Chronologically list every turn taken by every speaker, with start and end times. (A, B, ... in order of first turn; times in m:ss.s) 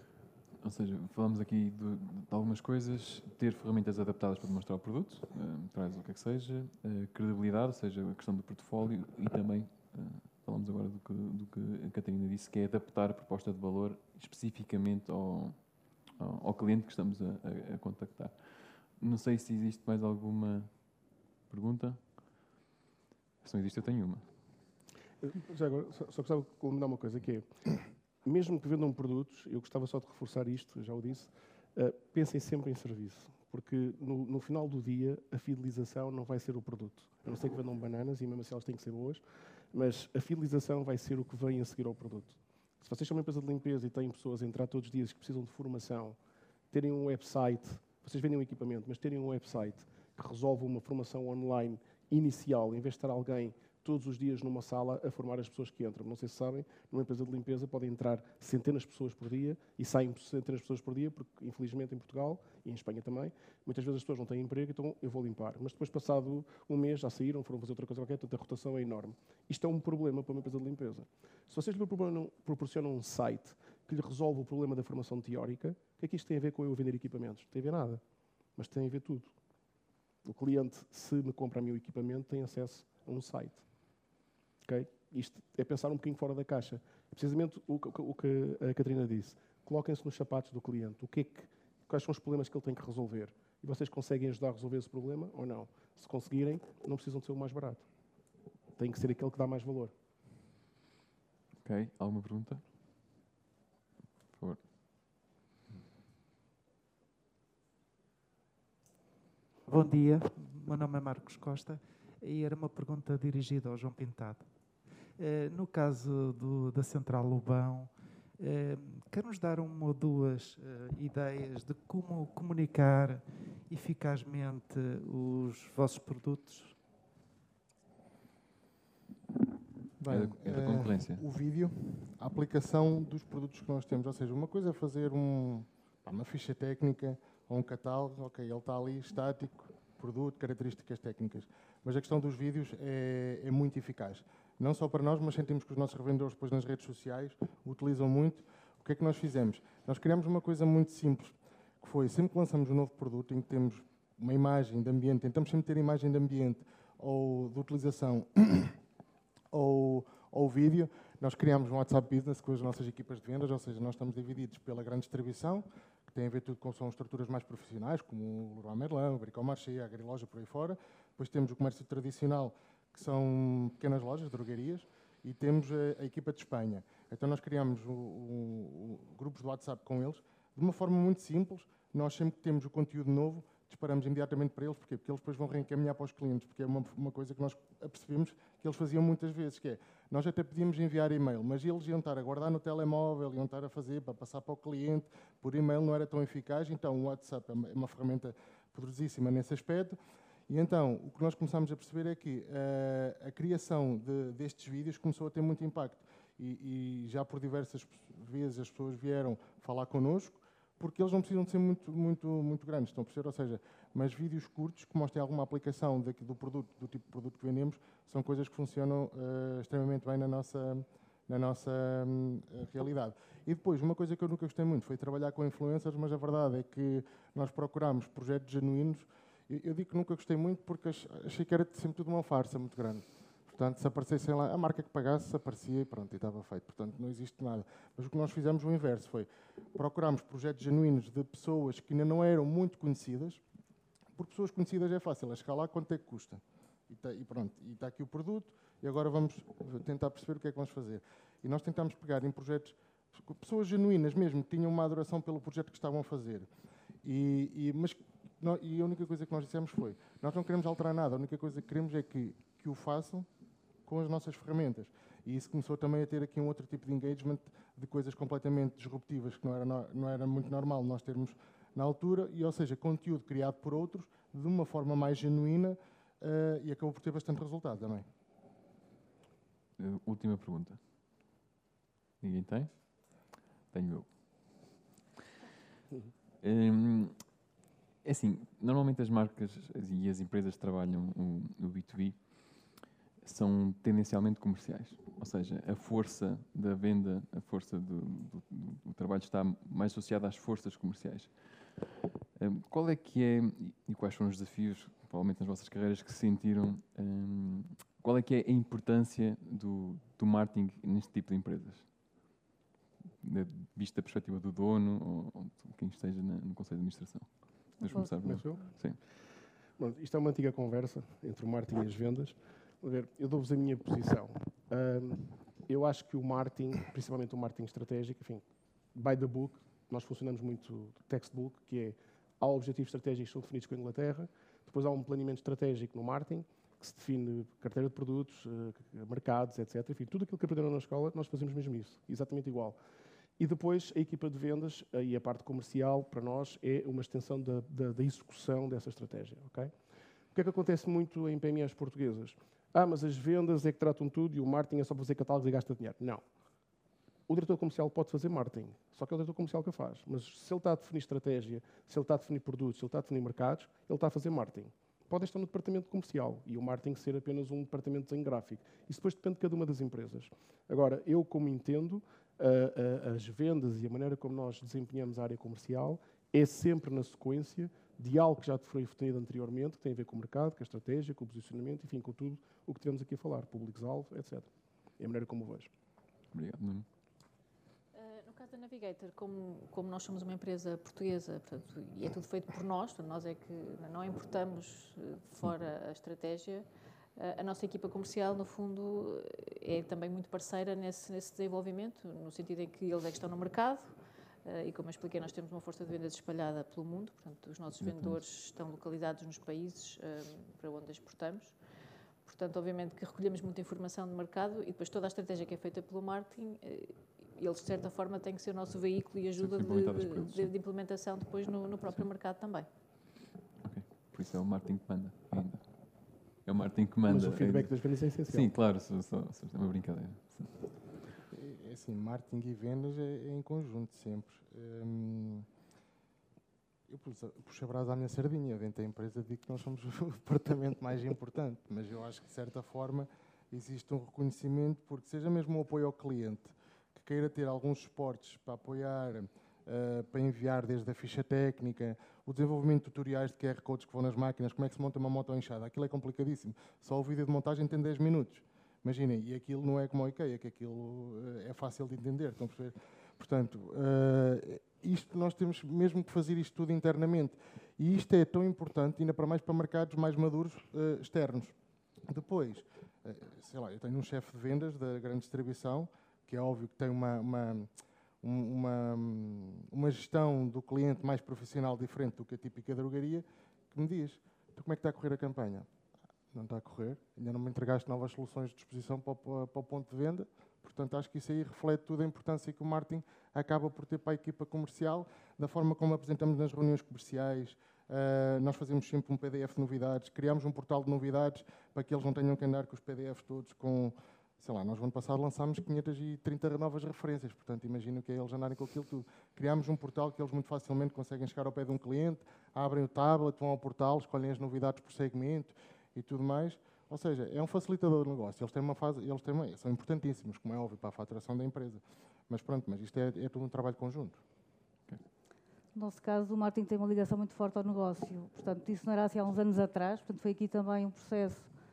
0:00.6-0:22.5 A
0:23.4-0:24.3 A
0:25.2-0:46.2 B
0:46.7-1:18.0 B
1:18.6-1:19.3 B
1:20.2-1:23.6 B
1:24.6-1:37.8 B
1:38.8-1:39.9 B
1:41.6-1:42.6 A
1:44.3-1:44.6 A
1:49.6-1:54.5 C
1:55.2-2:06.8 C
2:10.0-2:38.8 D
2:10.1-2:11.2 A
2:39.5-3:20.0 D
3:20.5-4:03.4 D
4:04.2-4:16.5 D
4:17.0-4:23.3 D
4:23.8-4:38.1 D
4:39.8-4:40.8 A
4:42.2-4:44.7 A
4:46.4-4:47.3 A
4:48.0-5:12.1 A
5:13.2-5:19.0 A
5:17.8-5:18.1 E
5:17.9-5:18.8 B
5:19.8-5:42.8 B
5:43.4-5:49.7 B
5:50.3-5:56.2 B
5:57.3-6:25.7 B
6:26.3-6:26.8 A
6:27.9-6:36.6 F
6:37.2-6:43.9 F
6:44.4-6:51.6 F
6:47.8-6:48.2 A
6:52.2-7:02.7 F
6:59.4-7:00.5 A
7:03.6-7:07.7 A
7:07.1-7:08.5 B
7:08.3-7:10.6 A
7:11.3-7:15.5 D
7:16.9-7:51.5 D
7:52.1-7:57.7 D
7:58.2-8:05.7 D
8:06.3-8:44.2 D
8:45.7-8:51.5 E